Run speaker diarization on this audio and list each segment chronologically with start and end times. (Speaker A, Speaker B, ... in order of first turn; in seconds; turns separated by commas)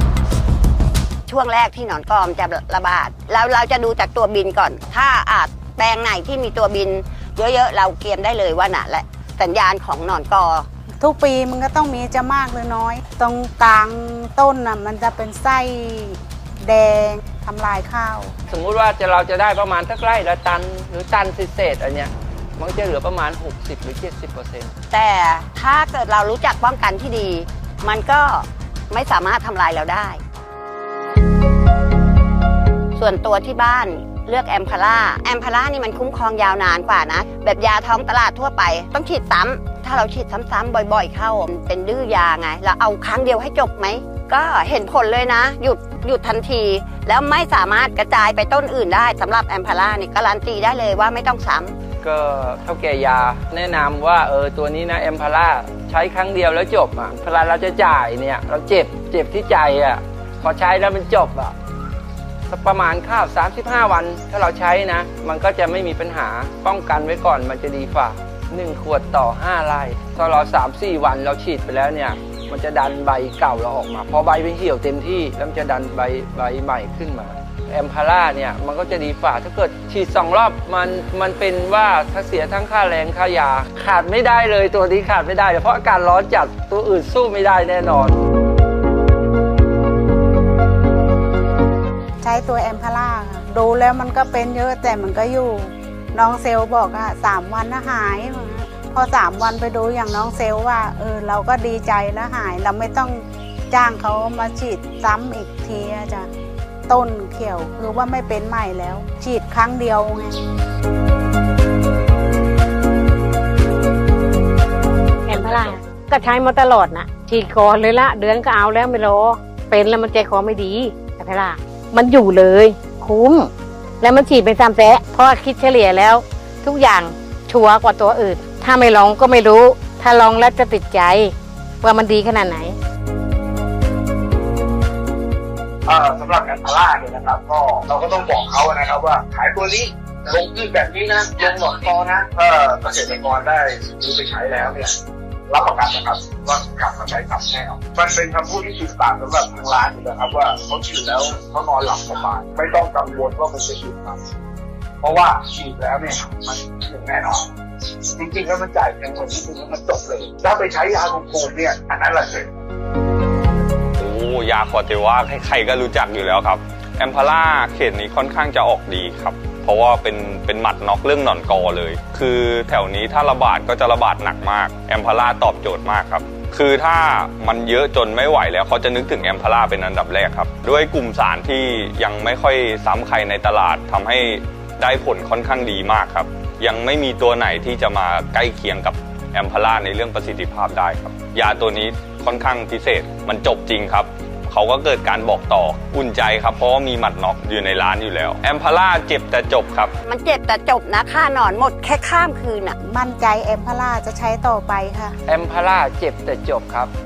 Speaker A: 1.3-10.7, Speaker B: 11.0-18.3, Speaker C: 18.5-24.7, Speaker A: 24.9-30.2, Speaker A: 33.0-51.8, Speaker C: 52.0-61.5, Speaker C: 62.5-88.2, Speaker B: 92.2-106.3, Speaker B: 106.9-110.4, Speaker D: 115.3-123.5, Speaker D: 124.0-132.8, Speaker E: 135.9-144.9, Speaker E: 145.5-154.2, Speaker E: 155.0-157.5, Speaker E: 158.2-162.5, Speaker F: 164.0-199.9, Speaker A: 200.0-202.8, Speaker B: 202.9-205.2, Speaker C: 205.3-206.9